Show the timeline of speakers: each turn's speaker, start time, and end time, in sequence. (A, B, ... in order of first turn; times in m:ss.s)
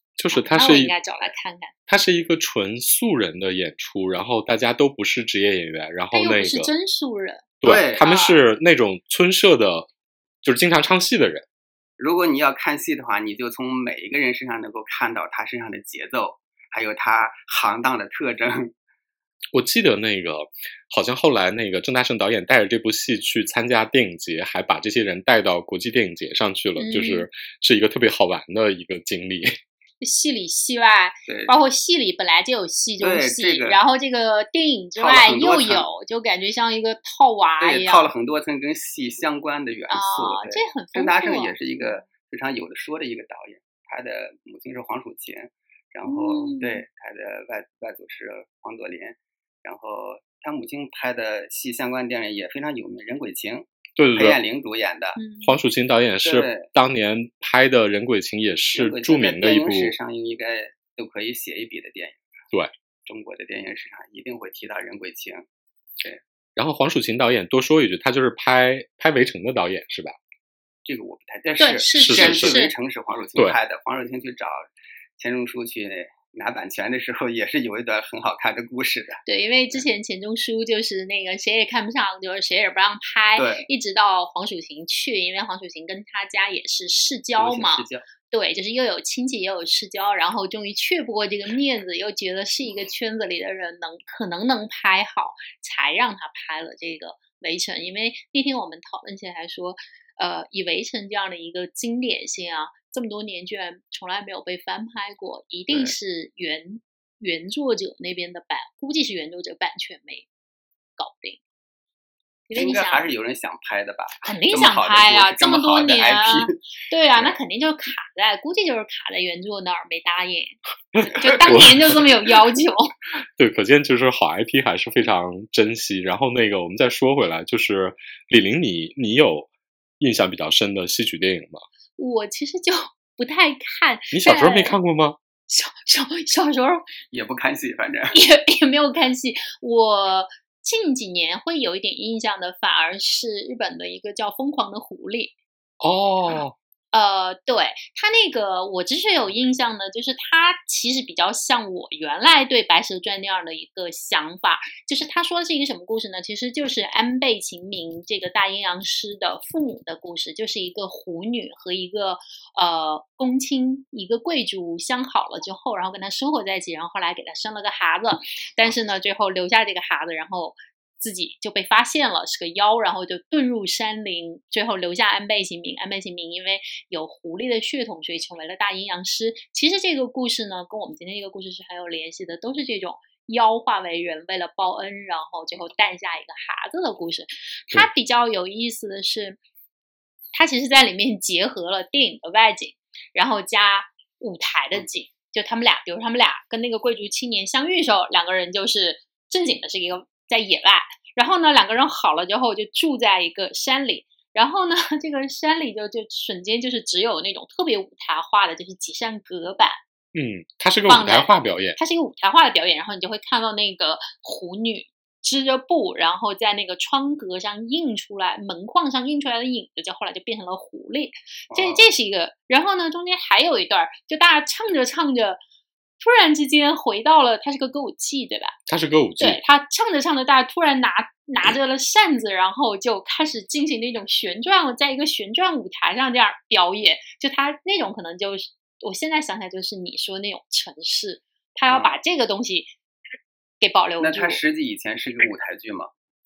0:00.2-0:00.9 A
0:00.3-0:01.7 B
0:01.9-0:06.7 A
0:06.1-0:08.4 B
0:07.6-0:09.9 A
0:07.6-0:08.2 C
0:10.4-0:11.5 A
0:12.0-0:18.7 C
0:19.5-0:29.6 A
0:26.8-0:27.3 B
0:30.0-0:38.1 B
0:31.3-0:31.6 C
0:33.0-0:33.8 C
0:35.0-0:35.9 C
0:37.6-0:55.2 C
0:39.9-0:42.1 B
0:46.1-0:46.8 B
0:54.0-0:54.4 A
0:55.2-0:55.6 B
0:55.4-1:00.0 A
0:56.2-0:56.7 C
0:58.7-1:02.2 C
1:03.1-1:05.5 C
1:06.6-1:10.2 A
1:10.8-1:19.2 C
1:11.6-1:12.7 B
1:12.0-1:12.6 A
1:19.3-1:50.3 B
1:23.4-1:23.7 C
1:27.4-1:28.1 C
1:45.7-1:46.0 C
1:51.0-1:51.4 B
1:52.5-1:53.1 B
1:52.5-1:56.6 C
1:54.2-2:02.9 B
2:01.0-2:02.0 A
2:03.4-2:09.5 A
2:10.0-2:11.6 A
2:12.0-2:14.8 B
2:14.1-2:15.2 A
2:15.5-2:16.9 B
2:17.1-2:18.2 C
2:18.1-2:25.4 B
2:25.8-2:26.5 A
2:26.9-3:09.4 B
3:10.3-3:29.8 B
3:30.1-3:31.8 A
3:30.9-3:45.4 B
3:41.5-3:41.9 C
3:46.0-3:48.6 B
3:48.7-3:49.4 A
3:49.2-4:02.7 B
4:01.7-4:02.0 C
4:03.6-4:04.4 B
4:04.0-4:05.9 C